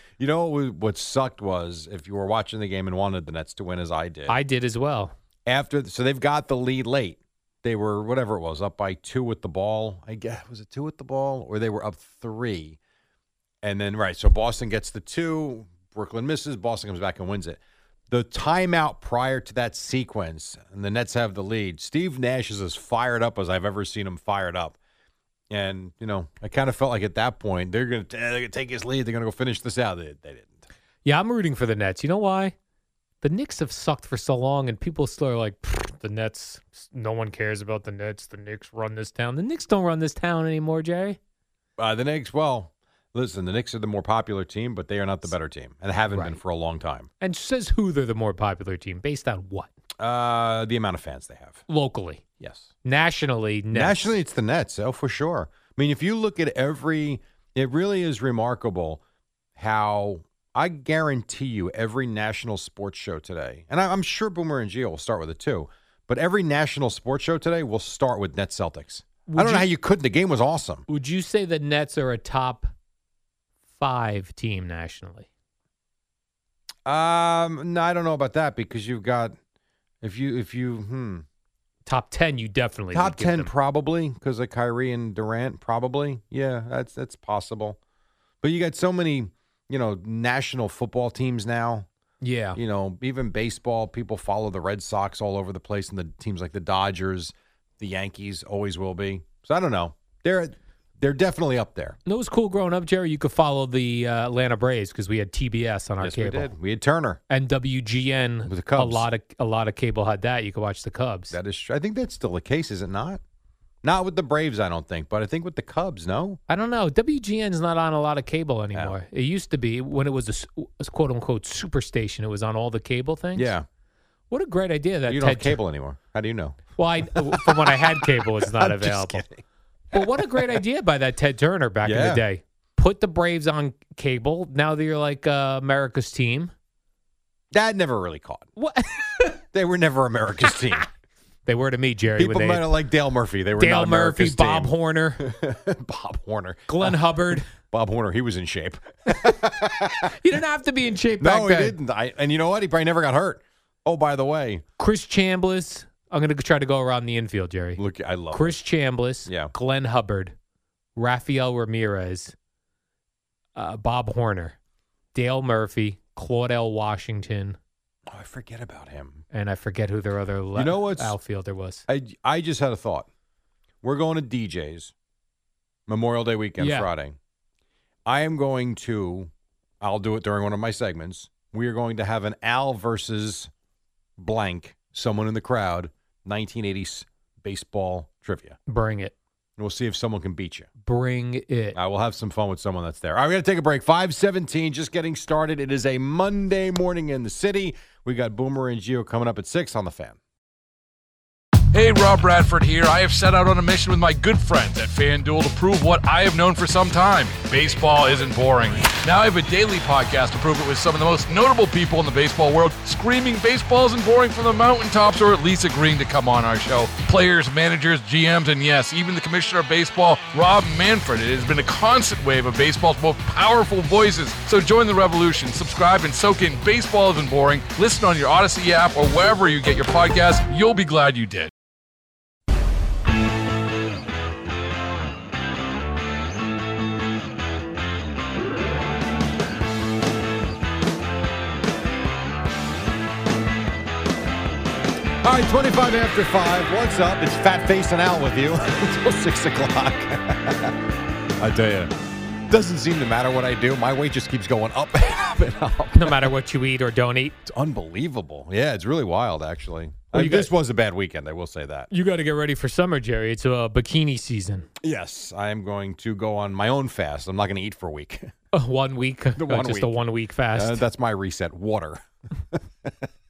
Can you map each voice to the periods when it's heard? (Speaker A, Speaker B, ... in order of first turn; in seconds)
Speaker A: 0.2-4.3, 5.5-12.8, 13.6-24.8, 25.5-30.6, 41.8-47.1, 50.0-51.6, 52.4-52.7, 53.7-59.0, 59.5-70.8, 76.9-79.4, 80.0-81.3, 82.9-87.8, 88.4-91.9, 92.5-102.0, 106.0-107.2, 108.5-109.1, 111.3-113.2, 113.8-116.4, 123.3-123.7, 125.1-129.4, 129.9-130.6, 131.8-132.2, 137.5-138.5, 139.5-140.9, 142.2-150.1, 151.2-154.6, 157.8-158.6, 159.3-159.5, 168.1-169.2, 170.6-171.2, 171.9-173.1, 173.8-174.9, 175.9-177.2, 178.1-183.5, 184.2-188.6, 189.6-190.7, 191.7-200.2, 245.2-250.8, 251.4-251.9, 252.5-256.3, 257.4-261.9, 264.8-268.3, 269.4-270.0, 270.6-273.1
Speaker B: 4.3-5.1, 31.1-32.5, 33.2-41.2, 46.1-46.4, 47.2-49.7, 51.7-52.2, 52.8-54.1, 69.3-69.7, 70.9-72.7, 73.8-75.3, 81.9-83.5, 92.2-92.6, 102.0-106.5, 107.3-111.3, 116.5-123.5, 124.3-125.6, 126.8-129.2, 129.9-136.5, 138.6-139.4, 141.4-142.7, 143.6-145.2, 146.7-147.5, 150.1-151.8, 154.8-157.8, 158.3-160.3, 160.9-162.3, 163.6-164.6, 165.1-167.6, 169.3-171.8, 176.6-176.9, 188.7-189.1, 190.8-191.8, 255.9-257.4, 260.1-260.5, 261.9-264.7, 268.5-270.8
Speaker C: 201.7-231.5